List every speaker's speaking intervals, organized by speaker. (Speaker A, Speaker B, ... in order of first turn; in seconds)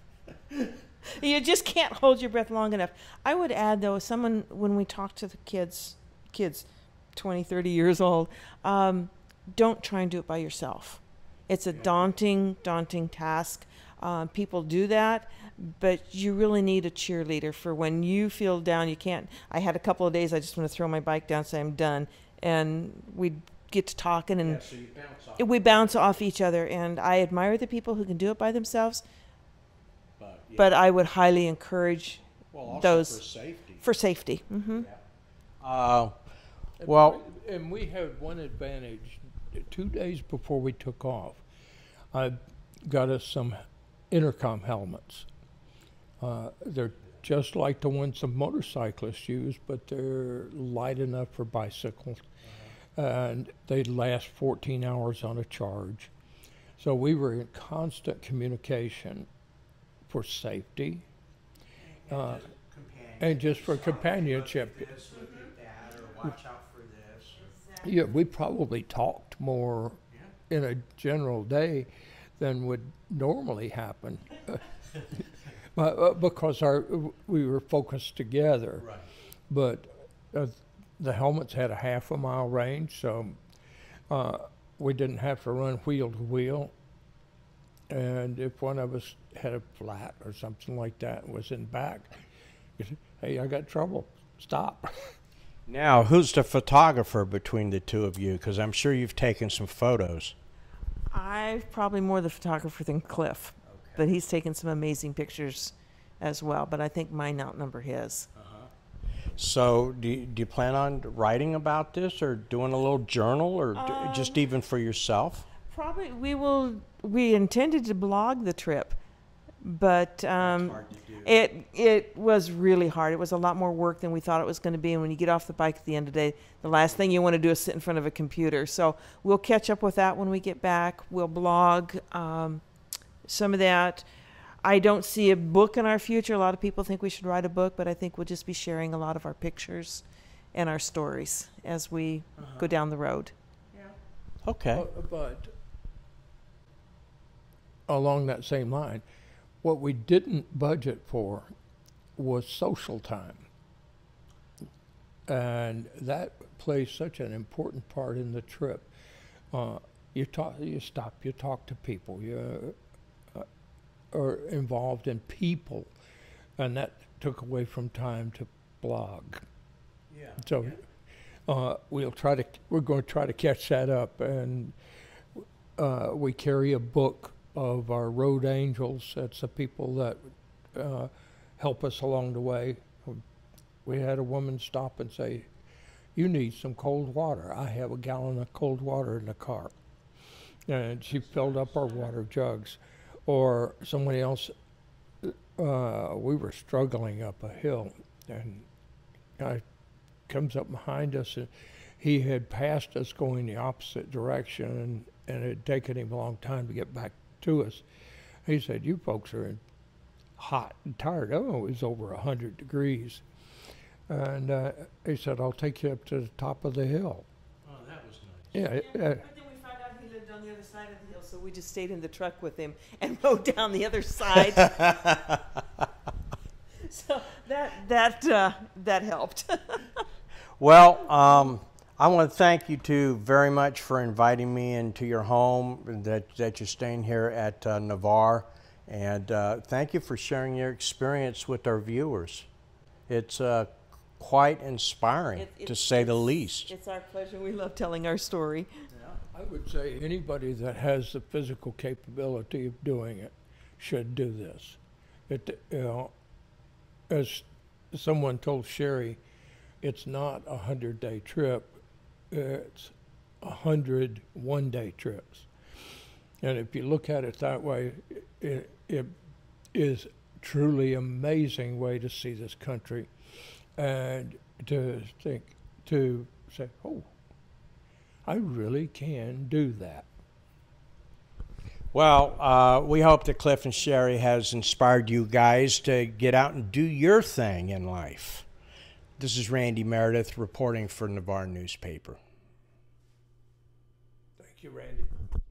Speaker A: 0.5-24.6, 25.4-29.0, 30.6-33.2, 33.8-34.9, 67.4-68.1, 101.1-108.3, 113.8-114.5, 115.7-119.0, 119.6-132.6, 133.3-134.1, 134.6-143.3, 218.7-225.0, 226.8-230.0, 245.4-248.7
Speaker B: 11.7-12.1, 24.4-25.5, 30.2-30.7, 32.5-33.9, 34.7-35.0, 35.6-36.1, 36.8-37.2, 61.8-67.5, 78.8-79.1, 95.7-100.3, 103.7-104.0, 108.3-108.7, 109.4-115.5, 120.4-121.3, 126.7-127.0, 142.4-142.7, 143.7-144.9, 170.1-170.8, 191.1-191.9, 217.6-218.6, 224.6-225.4, 230.6-242.5, 243.1-246.7, 248.9-249.2, 281.9-288.5, 289.2-292.2
Speaker C: 36.8-41.4, 42.1-43.6, 44.1-45.3, 46.2-52.2, 53.0-56.1, 56.8-59.3, 60.1-61.0, 62.1-62.5, 63.2-64.9, 67.8-70.0, 70.5-74.7, 75.8-78.9, 79.5-83.4, 84.1-86.7, 87.9-92.2, 92.8-95.1, 144.7-145.5, 147.9-149.0, 149.6-151.5, 152.2-153.5, 155.3-158.9, 159.5-162.8, 164.1-165.9, 166.6-169.4, 170.4-170.8, 171.5-174.8, 175.4-183.2, 183.8-185.5, 186.2-189.7, 190.7-194.5, 195.2-198.7, 199.4-199.6, 200.3-207.8, 208.5-209.6, 210.4-213.2, 214.1-217.3, 218.5-219.2, 249.3-256.1, 257.1-259.2, 259.8-261.8, 262.3-265.5, 266.4-269.1, 269.7-273.1, 273.8-277.1, 278.3-280.1, 294.4-295.1